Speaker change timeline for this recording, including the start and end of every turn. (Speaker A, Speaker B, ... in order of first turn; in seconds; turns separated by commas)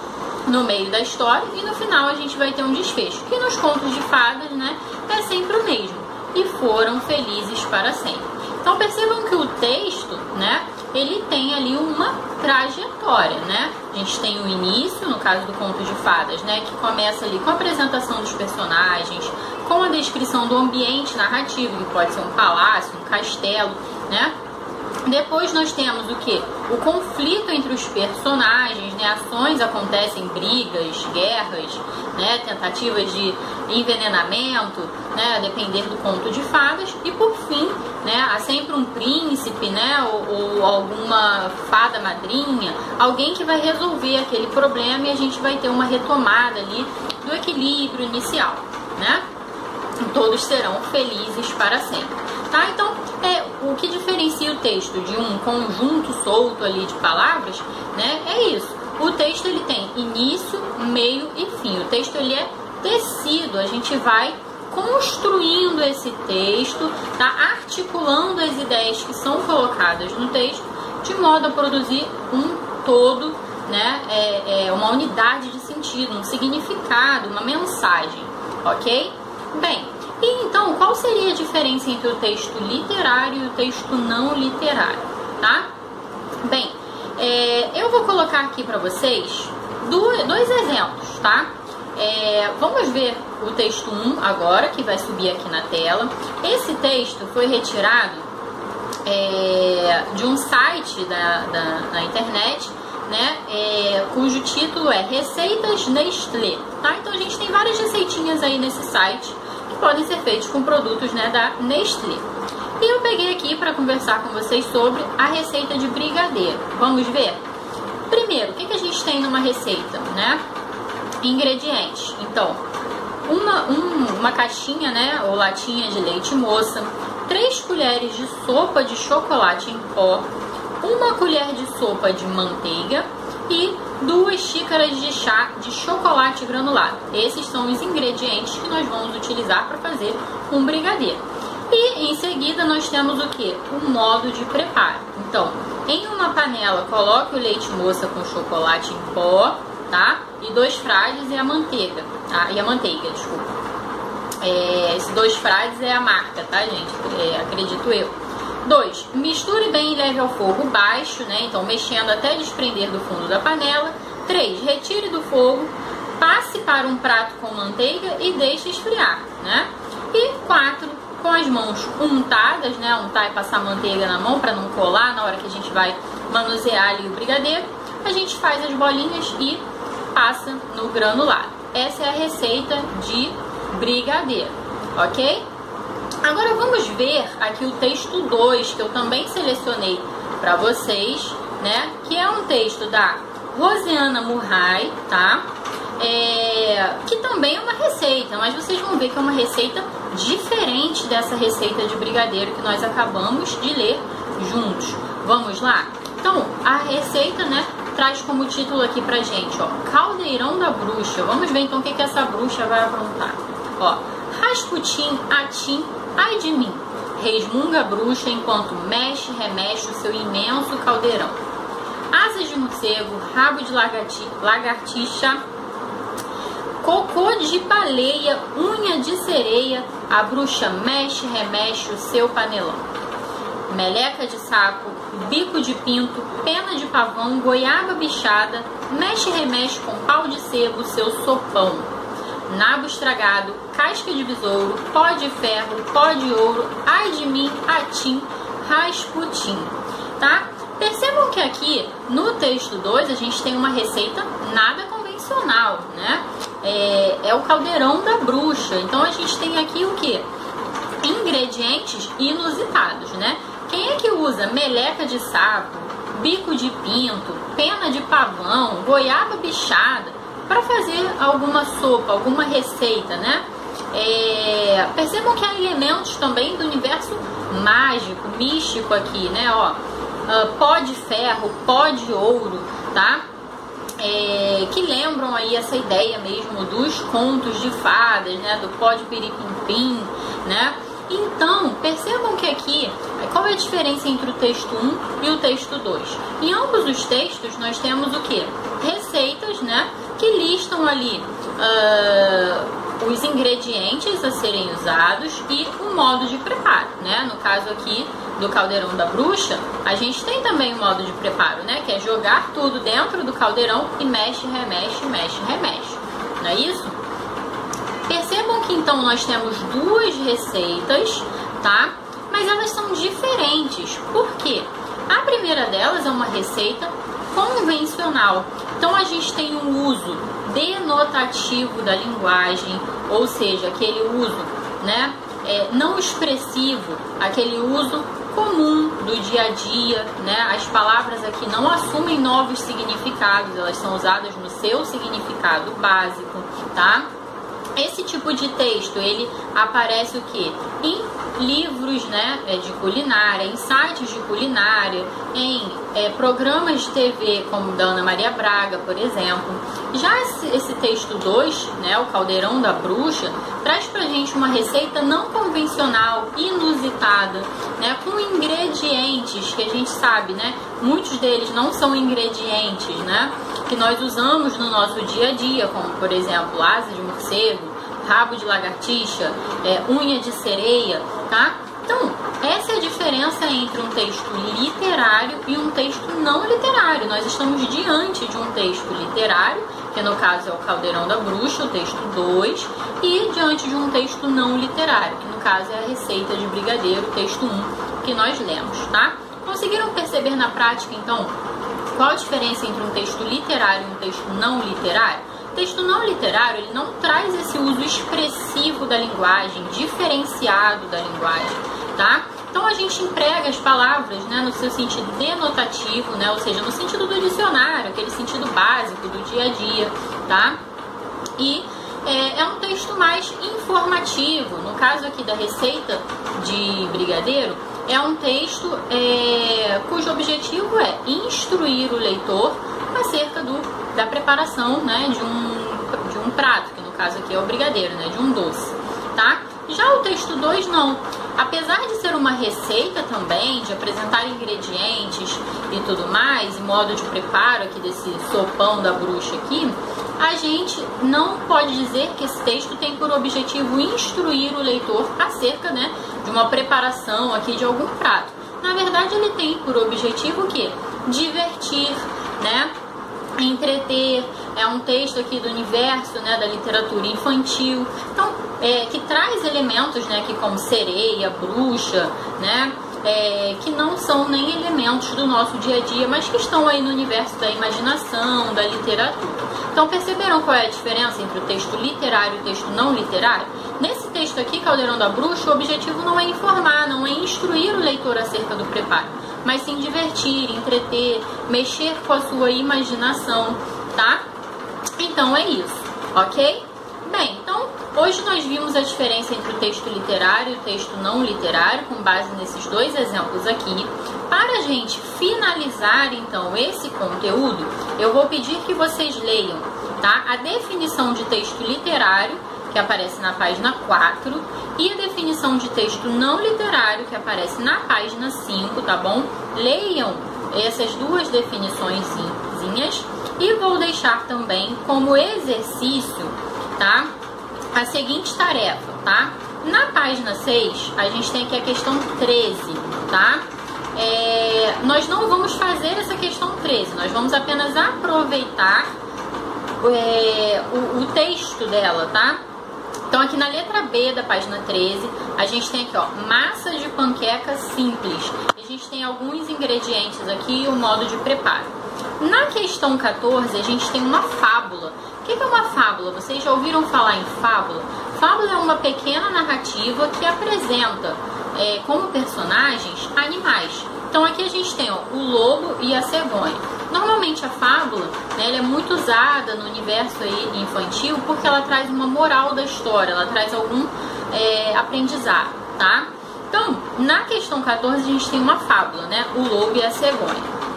Speaker A: 0.5-24.3, Speaker A: 25.0-49.2, Speaker A: 50.0-85.7, Speaker A: 86.4-98.3, Speaker A: 99.0-112.2, Speaker A: 112.8-117.4, Speaker A: 118.1-120.4, Speaker A: 121.2-122.6, Speaker A: 123.2-130.2, Speaker A: 130.8-153.5, Speaker A: 154.4-179.6, Speaker A: 180.1-185.4, Speaker A: 186.2-195.4, Speaker A: 196.0-221.4, Speaker A: 222.1-225.4, Speaker A: 226.8-232.8, Speaker A: 233.7-241.9, Speaker A: 242.5-260.3, Speaker A: 261.0-283.2, Speaker A: 284.0-317.0, Speaker A: 318.1-347.1, Speaker A: 347.8-401.3, Speaker A: 401.9-420.6, Speaker A: 421.4-462.7, Speaker A: 463.4-494.2, Speaker A: 495.0-527.1, Speaker A: 527.7-533.4, Speaker A: 533.9-538.9, Speaker A: 539.8-542.4, Speaker A: 543.1-580.5